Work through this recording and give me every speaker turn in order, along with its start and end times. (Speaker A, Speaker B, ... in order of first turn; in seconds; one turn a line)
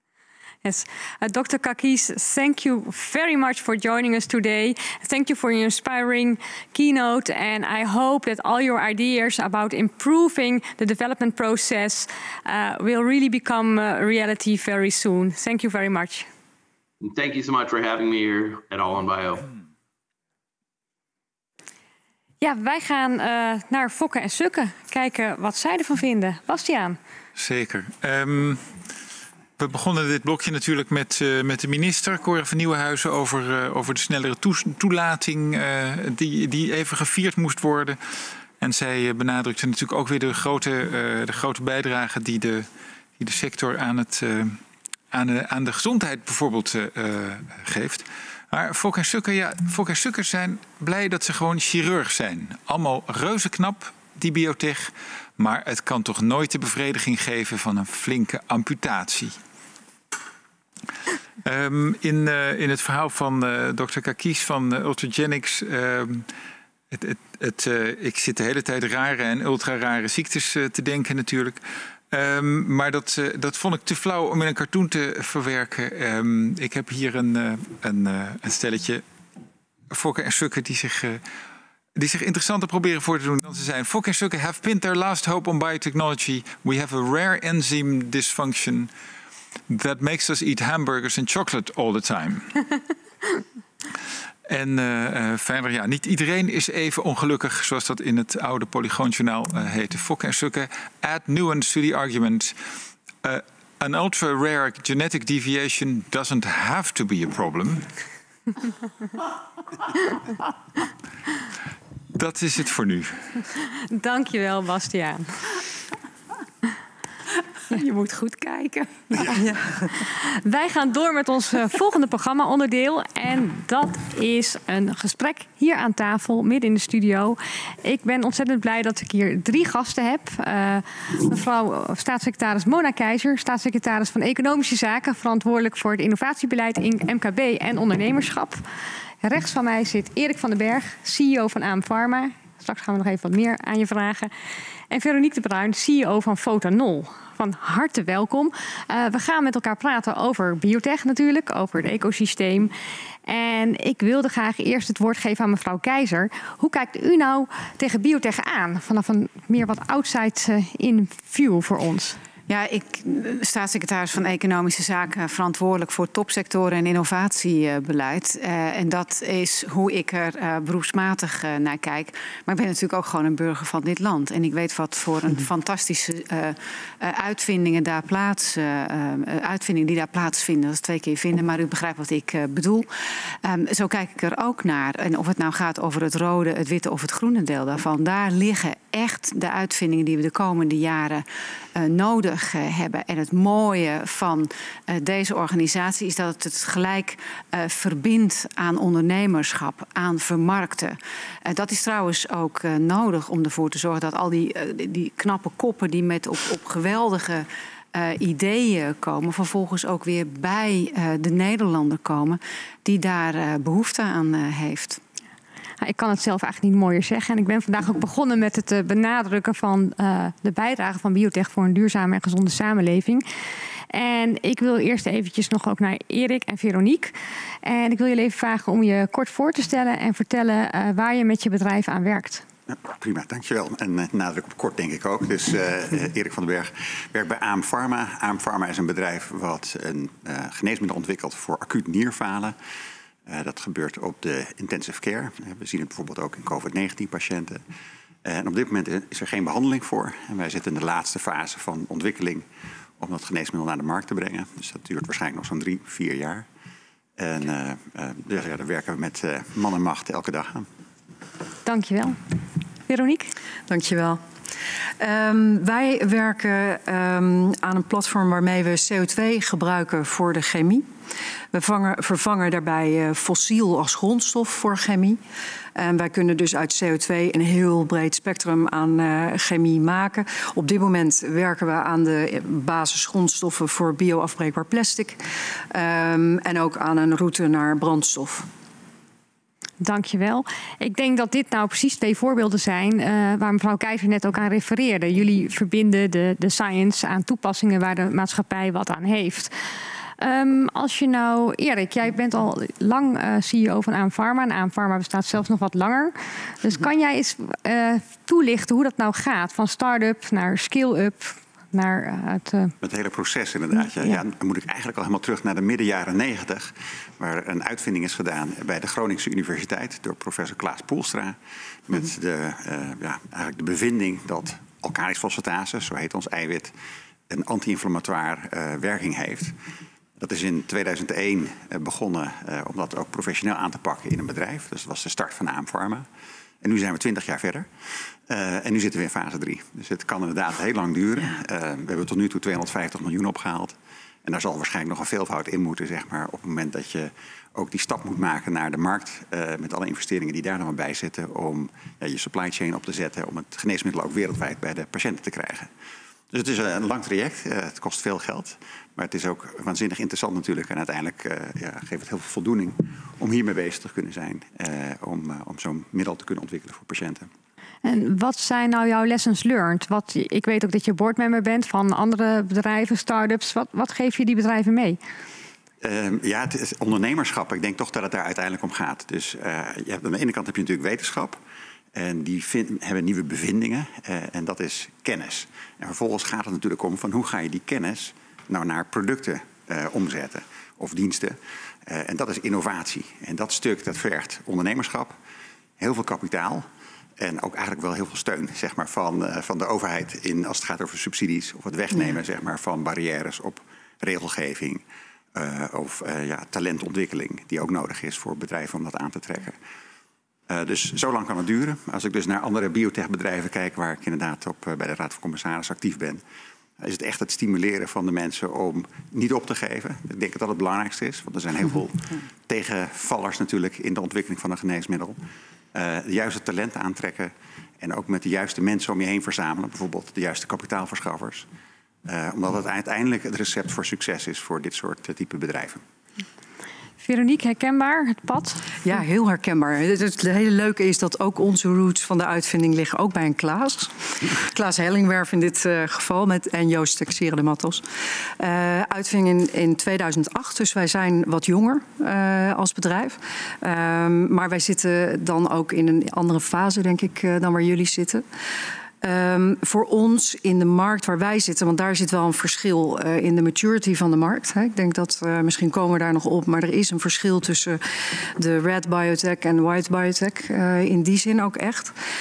Speaker A: 0.6-16.3
Speaker B: 17.0-19.5
Speaker A: 22.4-27.0
Speaker C: 27.4-28.7
Speaker C: 29.6-38.0
Speaker C: 38.6-44.6
Speaker C: 45.1-59.4
Speaker C: 61.4-66.3
Speaker C: 66.9-71.6
Speaker C: 72.1-79.0
Speaker C: 79.9-81.2
Speaker C: 82.0-88.9
Speaker C: 89.7-92.6
Speaker C: 94.5-102.5
Speaker C: 103.2-107.9
Speaker C: 112.1-113.3
Speaker A: 113.9-115.5
Speaker D: 117.8-119.0
Speaker E: 119.2-119.9
Speaker A: 120.3-138.6
Speaker A: 139.2-144.3
Speaker A: 144.9-152.7
Speaker A: 153.3-162.2
Speaker D: 162.5-182.9
Speaker D: 183.4-215.0
Speaker A: 215.8-223.2
Speaker A: 223.9-232.4
Speaker F: 232.7-242.6
Speaker F: 243.3-247.6
Speaker F: 248.2-252.5
Speaker F: 253.0-256.5
Speaker F: 257.2-260.7
Speaker A: 261.6-262.2
Speaker A: 262.9-263.3
Speaker E: 263.7-264.2
Speaker E: 265.0-270.9
Speaker E: 271.5-275.2
Speaker E: 275.8-288.5
Speaker A: 289.8-299.5
Speaker A: 300.2-312.8
Speaker F: 312.8-326.8
Speaker F: 327.3-329.6
Speaker F: 330.2-336.1
Speaker F: 336.6-337.7
Speaker F: 338.3-355.7
Speaker F: 356.3-367.3
Speaker A: 367.8-375.0
Speaker F: 375.8-381.4
Speaker F: 381.9-395.2
Speaker F: 395.8-396.7
Speaker F: 397.2-409.6
Speaker F: 410.5-416.2
Speaker F: 416.8-425.2
Speaker F: 425.7-431.5
Speaker F: 432.1-435.8
Speaker A: 437.0-438.7
Speaker E: 438.9-447.8
Speaker E: 448.4-458.2
Speaker E: 459.0-471.9